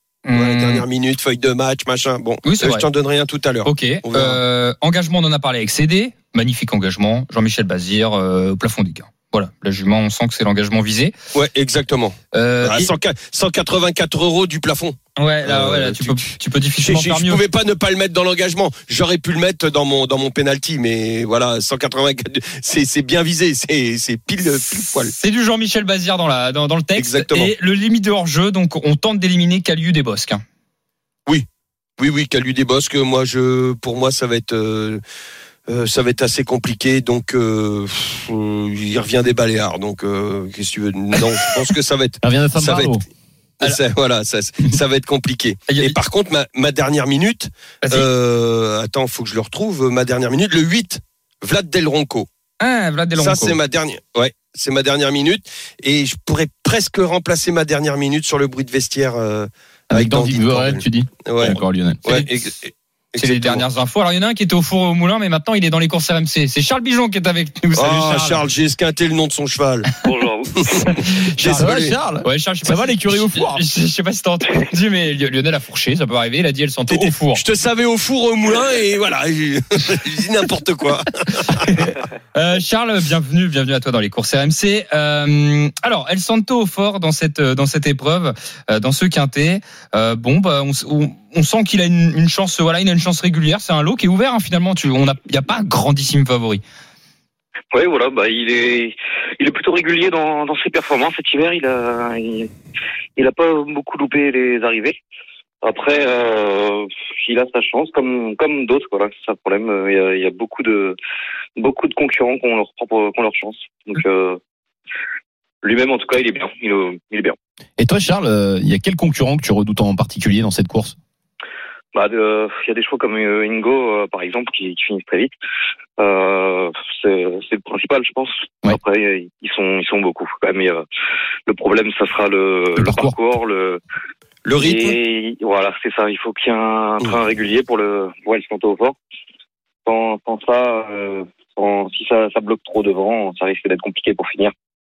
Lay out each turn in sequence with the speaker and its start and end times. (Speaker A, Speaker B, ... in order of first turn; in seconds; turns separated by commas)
Speaker A: 0.2-0.8, Speaker B: 0.3-4.4, Speaker A: 2.4-2.9, Speaker A: 3.6-11.1, Speaker B: 11.3-25.1, Speaker A: 12.3-12.9, Speaker A: 15.2-17.4, Speaker A: 24.6-30.4, Speaker B: 27.0-27.5, Speaker B: 32.0-35.0, Speaker B: 35.7-43.0, Speaker C: 42.2-43.0, Speaker B: 43.6-52.3, Speaker A: 45.7-46.0, Speaker A: 52.6-53.6, Speaker B: 53.2-63.6, Speaker C: 59.9-62.0, Speaker A: 63.2-68.4, Speaker B: 67.8-69.9, Speaker D: 70.0-71.0, Speaker B: 70.6-72.0, Speaker A: 70.7-71.7, Speaker C: 71.5-73.6, Speaker A: 72.2-77.4, Speaker B: 76.9-81.9, Speaker A: 82.3-96.6, Speaker D: 97.7-102.5, Speaker D: 103.2-105.0, Speaker D: 105.6-111.0, Speaker D: 111.6-114.4, Speaker D: 115.6-117.4, Speaker C: 117.8-121.0, Speaker D: 121.9-125.3, Speaker D: 126.0-130.8, Speaker D: 131.5-133.8, Speaker C: 132.8-133.1, Speaker B: 134.4-135.0, Speaker D: 134.6-139.0, Speaker D: 139.8-144.5